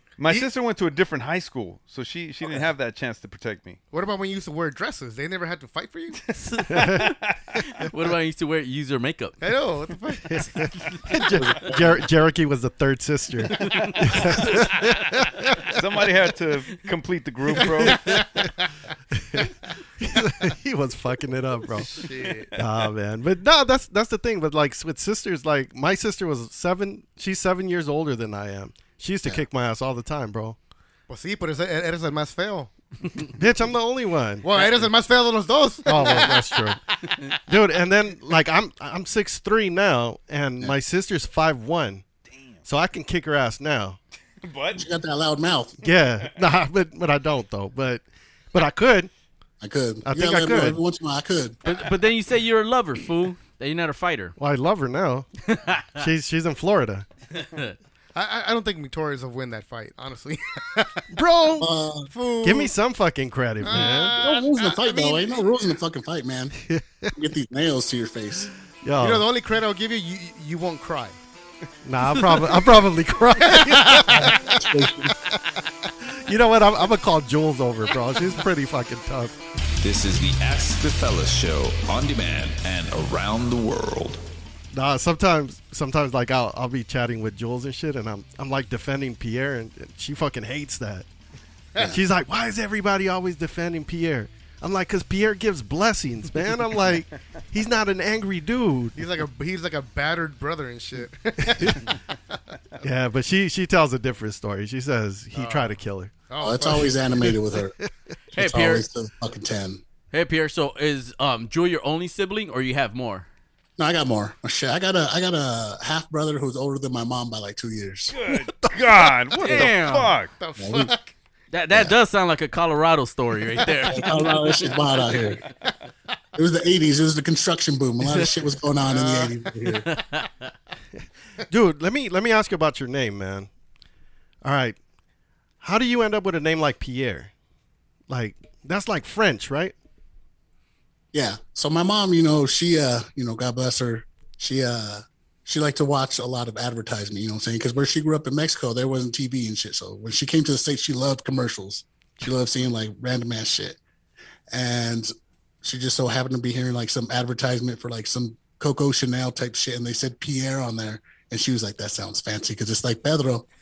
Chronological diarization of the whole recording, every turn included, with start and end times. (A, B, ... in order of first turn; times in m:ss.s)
0:00.2-0:03.8 A
0:03.9-0:06.3 B
0:06.6-0:09.4 C
0:06.7-0:07.1 D
0:07.3-0:07.5 A
0:09.4-0:10.5 B
0:10.3-0:15.7 D
0:11.4-0:11.9 E
0:15.7-0:18.2 A
0:17.6-0:18.5 B
0:17.9-0:18.2 D
0:20.0-0:21.9 D
0:21.8-0:22.5 B
0:22.2-0:22.6 A
0:22.6-0:30.6 D
0:31.1-0:32.7 B
0:33.3-0:34.4 D
0:34.4-0:37.1 B
0:35.8-0:36.8 D
0:37.5-0:42.0 D
0:42.3-0:42.6 A
0:42.6-0:44.0 D
0:44.4-0:44.8 A
0:44.7-0:45.8 E
0:45.8-0:49.1 D
0:49.6-0:51.6 E
0:50.0-0:50.8 D
0:51.6-0:54.4 C
0:54.4-0:55.3 D
0:55.5-0:56.0 C
0:56.0-0:57.0 D
0:57.3-0:57.8 C
0:58.1-1:01.1 B
1:01.1-1:01.7 D
1:01.6-1:02.1 E
1:02.1-1:02.7 B
1:02.4-1:04.2 D
1:03.6-1:05.6 B
1:04.1-1:06.5 E
1:06.6-1:07.1 D
1:07.1-1:08.5 E
1:08.8-1:09.2 D
1:09.0-1:11.2 B
1:11.8-1:14.2 D
1:13.4-1:14.6 B
1:14.0-1:15.1 E
1:16.2-1:19.3 D
1:19.8-1:24.2 F
1:24.7-1:31.1 D
1:31.8-1:39.0 D
1:39.0-1:42.8 B
1:41.5-1:41.8 D
1:42.8-1:46.1 D
1:45.3-1:45.8 B
1:46.3-1:47.3 B
1:46.4-1:47.8 E
1:48.3-1:49.8 E
1:48.4-1:48.8 C
1:50.1-1:53.2 C
1:53.8-1:58.2 E
1:58.1-2:00.3 A
1:59.4-2:00.1 C
2:00.4-2:01.1 B
2:00.6-2:00.9 E
2:01.5-2:04.5 C
2:03.9-2:05.4 E
2:06.3-2:09.9 E
2:08.8-2:09.3 B
2:09.9-2:10.3 C
2:11.5-2:13.5 D
2:14.4-2:14.8 D
2:15.6-2:17.3 D
2:18.1-2:19.7 D
2:21.1-2:33.8 E
2:34.5-2:35.1 E
2:35.6-2:43.4 E